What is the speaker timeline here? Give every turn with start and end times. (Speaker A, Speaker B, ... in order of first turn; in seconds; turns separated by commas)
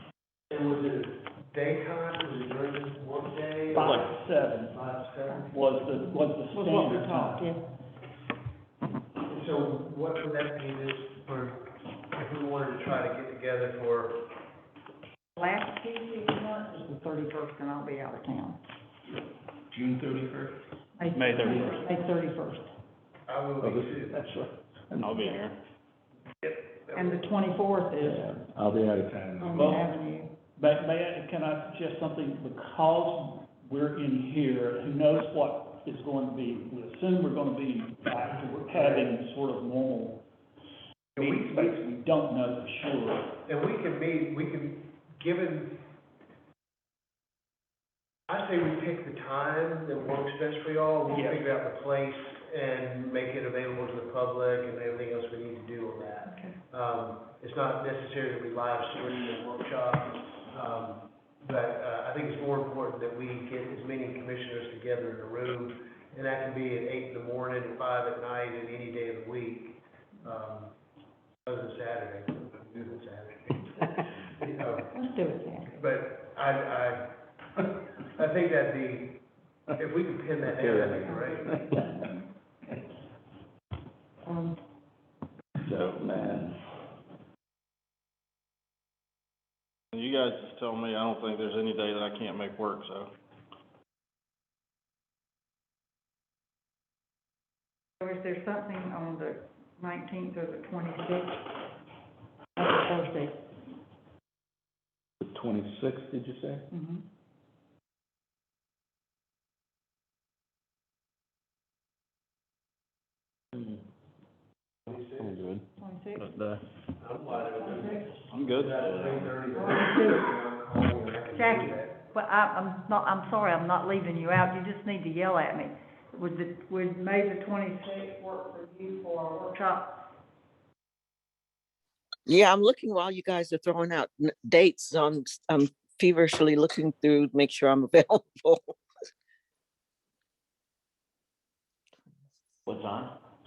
Speaker A: 0.5-5.7, Speaker B: 3.7-4.8, Speaker B: 5.5-7.5, Speaker C: 6.5-7.7, Speaker A: 9.3-14.3, Speaker C: 15.4-18.6, Speaker C: 21.0-22.7, Speaker B: 21.2-21.8, Speaker D: 21.3-21.7, Speaker A: 23.3-24.2, Speaker E: 23.6-25.2, Speaker D: 25.0-25.6, Speaker A: 26.4-27.2, Speaker C: 26.9-28.3, Speaker E: 28.0-29.8, Speaker C: 29.4-30.4, Speaker B: 29.6-29.9, Speaker B: 30.6-40.2, Speaker A: 38.7-39.1, Speaker A: 41.2-41.8, Speaker B: 41.2-43.3, Speaker A: 43.5-45.8, Speaker A: 48.3-70.7, Speaker C: 51.1-51.4, Speaker C: 56.3-56.6, Speaker A: 71.5-74.9, Speaker C: 74.9-75.8, Speaker A: 75.7-81.7, Speaker E: 80.5-82.1, Speaker C: 84.3-84.6, Speaker E: 85.6-86.6, Speaker D: 89.9-93.1, Speaker C: 98.0-101.5, Speaker C: 102.6-103.5, Speaker E: 105.2-106.7, Speaker C: 106.7-107.1, Speaker A: 114.9-115.5, Speaker C: 115.8-116.4, Speaker D: 116.2-116.6, Speaker A: 117.0-122.0, Speaker C: 117.3-118.2, Speaker D: 118.3-119.4, Speaker C: 119.5-120.3, Speaker C: 121.3-130.1, Speaker F: 132.3-138.8